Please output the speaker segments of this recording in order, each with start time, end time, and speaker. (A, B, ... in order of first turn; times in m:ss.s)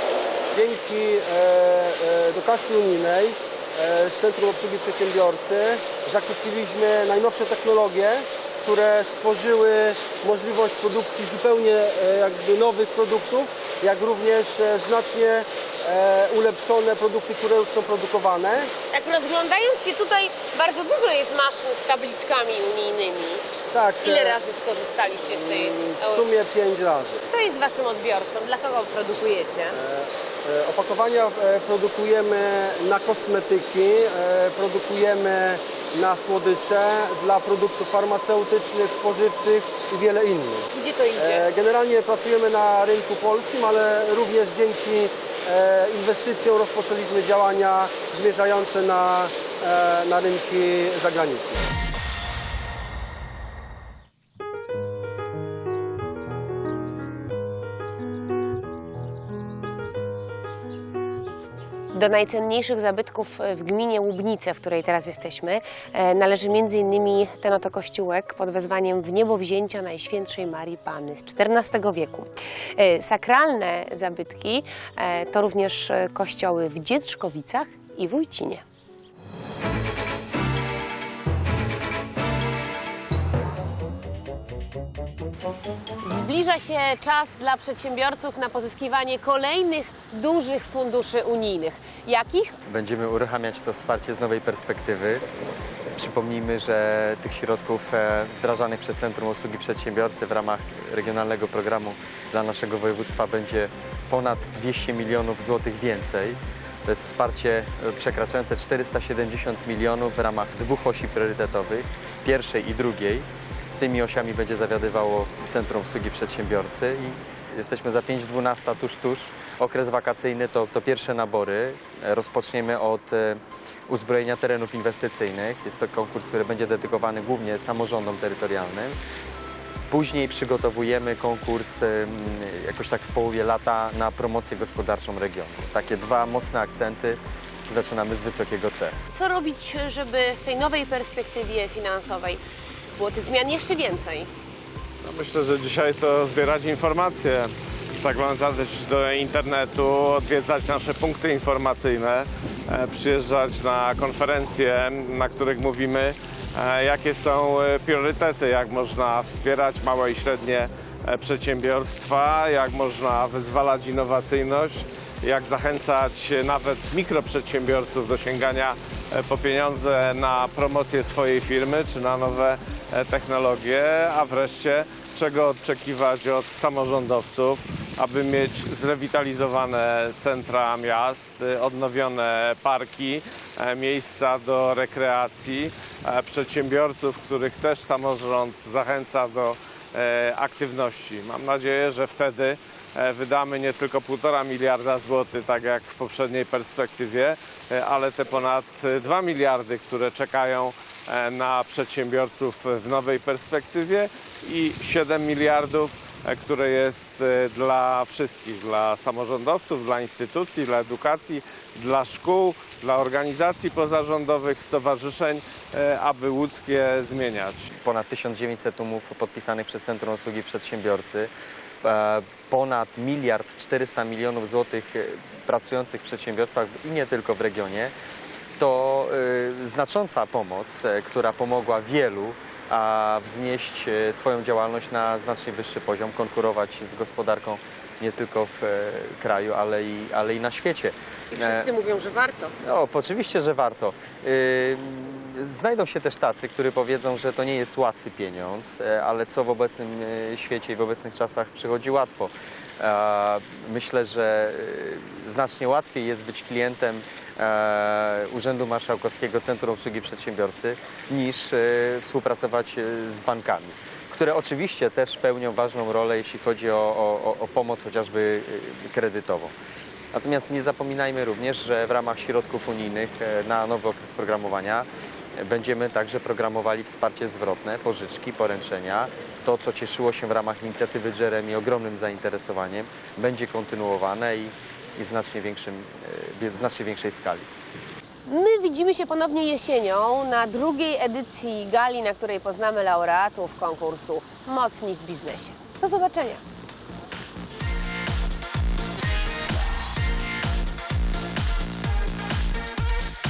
0:00.5-0:18.7 A
0:18.9-0:23.4 B
0:23.7-0:24.4 A
0:24.0-0:26.3 B
0:25.5-0:27.2 A
0:27.3-0:29.8 B
0:29.8-0:51.6 A
0:40.7-0:41.5 B
1:01.9-1:18.6 B
1:26.0-1:32.6 B
1:32.7-1:35.2 C
1:36.0-1:53.3 C
1:53.8-2:09.0 C
2:09.9-2:19.0 C
2:19.1-2:22.4 B
2:23.0-2:24.3 B
2:25.0-3:37.7 D
3:37.8-3:41.3 C
3:41.8-3:47.9 C
3:48.6-4:01.7 C
4:01.3-4:02.5 B
4:02.6-4:29.5 C
4:30.1-4:47.5 C
4:48.3-4:56.4 B